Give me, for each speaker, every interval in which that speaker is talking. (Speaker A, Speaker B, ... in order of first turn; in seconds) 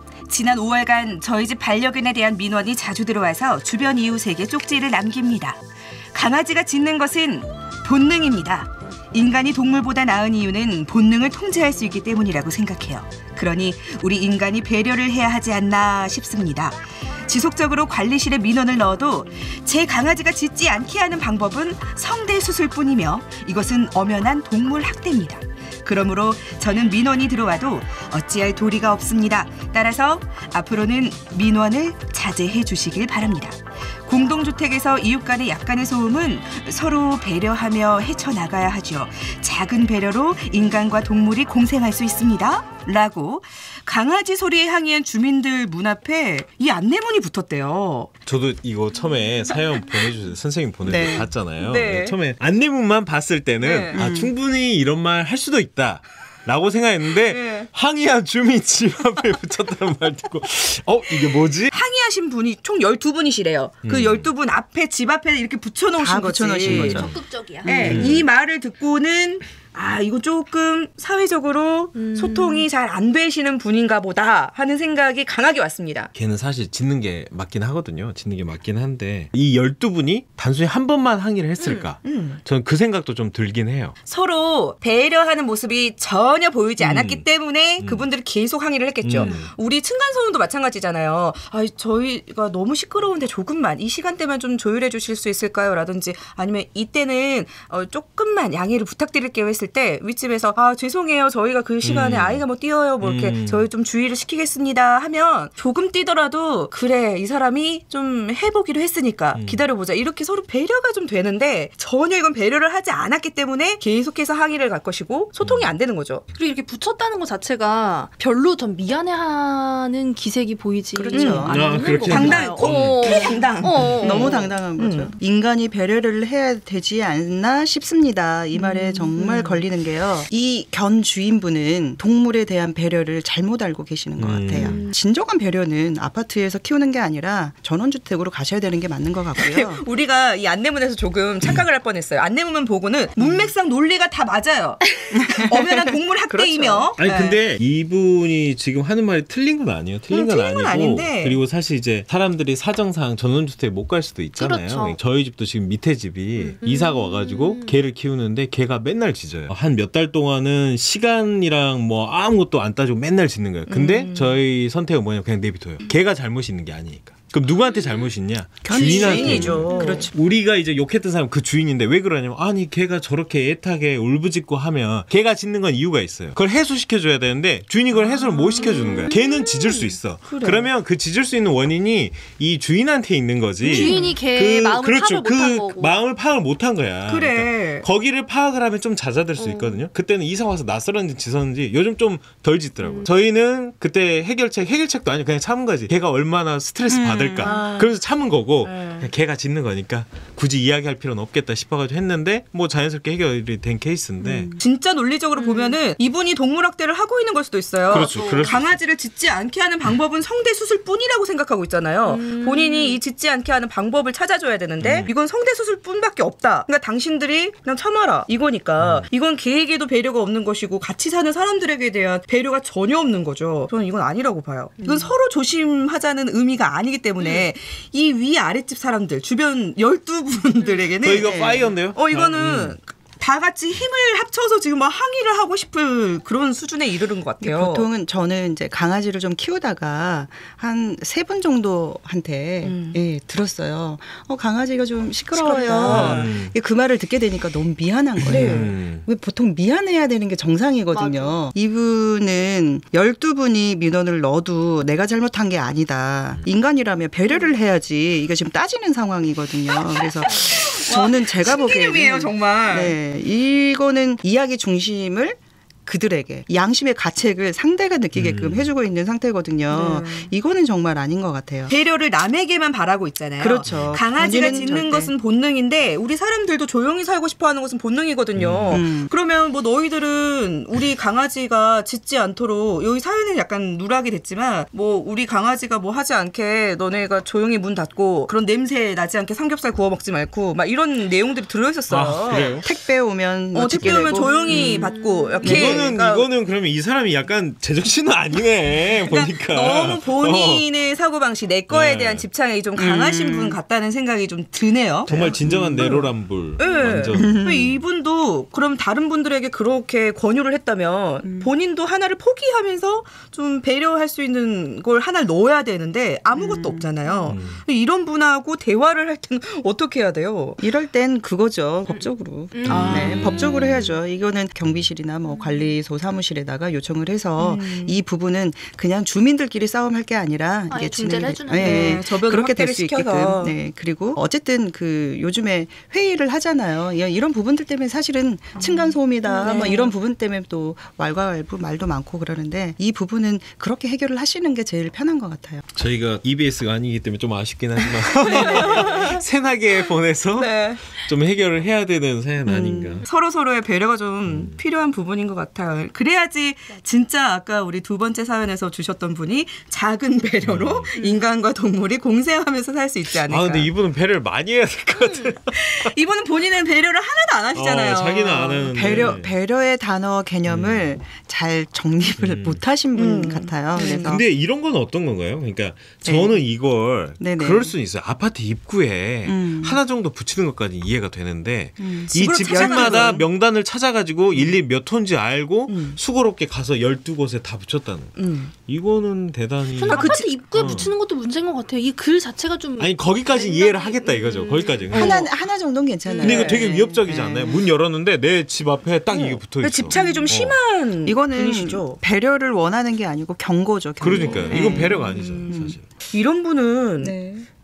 Speaker A: 0.3-5.6, 6.1-48.1, 51.6-52.2, 53.6-54.0, 57.2-57.7, 61.7-67.0, 67.6-76.1, 82.0-82.4, 84.0-116.2, 121.1-125.1, 129.2-129.5, 139.4-147.4, 150.1-151.4, 163.7-164.4, 168.7-170.1, 178.3-178.9, 180.2-180.7, 183.7-184.1, 187.1-187.8, 197.4-197.8, 198.6-199.1, 204.6-237.9, 242.6-243.0, 245.3-246.3, 248.3-248.7, 260.0-263.0, 269.7-270.3, 271.7-292.6, 293.5-296.3, 298.9-305.2, 305.8-306.0, 306.6-320.6, 322.6-323.4, 327.4-328.0, 331.5-333.6, 339.4-339.9, 348.2-349.1, 350.3-350.8, 353.0-363.7, 365.6-369.2, 372.9-374.2, 382.1-383.2, 385.7-386.0, 388.1-388.5, 389.9-390.8, 394.9-395.3, 396.1-396.6, 399.1-402.0, 404.1-407.1
Speaker B: 48.2-61.7, 63.8-64.3, 66.6-67.2, 67.8-68.2, 76.1-84.0, 86.8-87.2, 87.8-88.1, 89.0-89.5, 101.8-102.4, 103.0-103.7, 109.3-109.6, 115.4-115.7, 121.5-123.0, 134.2-134.8, 147.0-204.5, 207.9-208.7, 214.8-215.1, 218.8-219.1, 231.0-232.8, 245.8-246.5, 248.2-249.1, 268.1-268.7, 273.6-273.9, 278.3-278.8, 291.9-292.6, 295.4-300.7, 301.7-302.2, 305.1-307.3, 317.3-317.6, 322.7-323.9, 345.7-353.1, 354.2-354.6, 360.4-360.9, 363.2-365.9, 367.5-369.3, 370.4-371.0, 372.2-372.6, 374.0-390.9, 392.8-395.3, 396.2-400.6, 404.0-405.8
Speaker C: 50.8-51.3, 53.9-54.3, 66.0-68.2, 120.9-121.7, 124.0-139.8, 143.2-143.5, 145.1-146.9, 168.6-170.1, 196.9-197.6, 204.2-204.6, 231.1-231.8, 237.4-271.7, 273.4-275.1, 278.7-279.1, 292.5-295.9, 302.8-303.6, 305.1-306.1, 307.1-307.8, 311.2-311.5, 316.3-316.9, 320.6-345.6, 348.3-348.9, 352.4-353.0, 368.6-374.2, 376.0-376.4, 377.2-377.7, 379.2-379.8, 381.8-383.2, 394.9-397.6, 399.9-400.3, 401.0-405.8, 407.0-407.4
Speaker D: 66.9-67.7, 72.0-72.6, 116.3-124.5, 128.5-129.2, 134.6-134.9, 154.4-155.0, 156.5-157.7, 178.6-179.9, 183.6-185.9, 189.4-189.8, 192.8-193.1, 205.4-205.8, 207.9-208.6, 212.0-213.0, 250.9-251.4, 294.1-294.9, 321.9-323.8, 330.7-332.1, 339.3-339.9, 360.9-361.2, 364.9-365.3, 389.8-395.2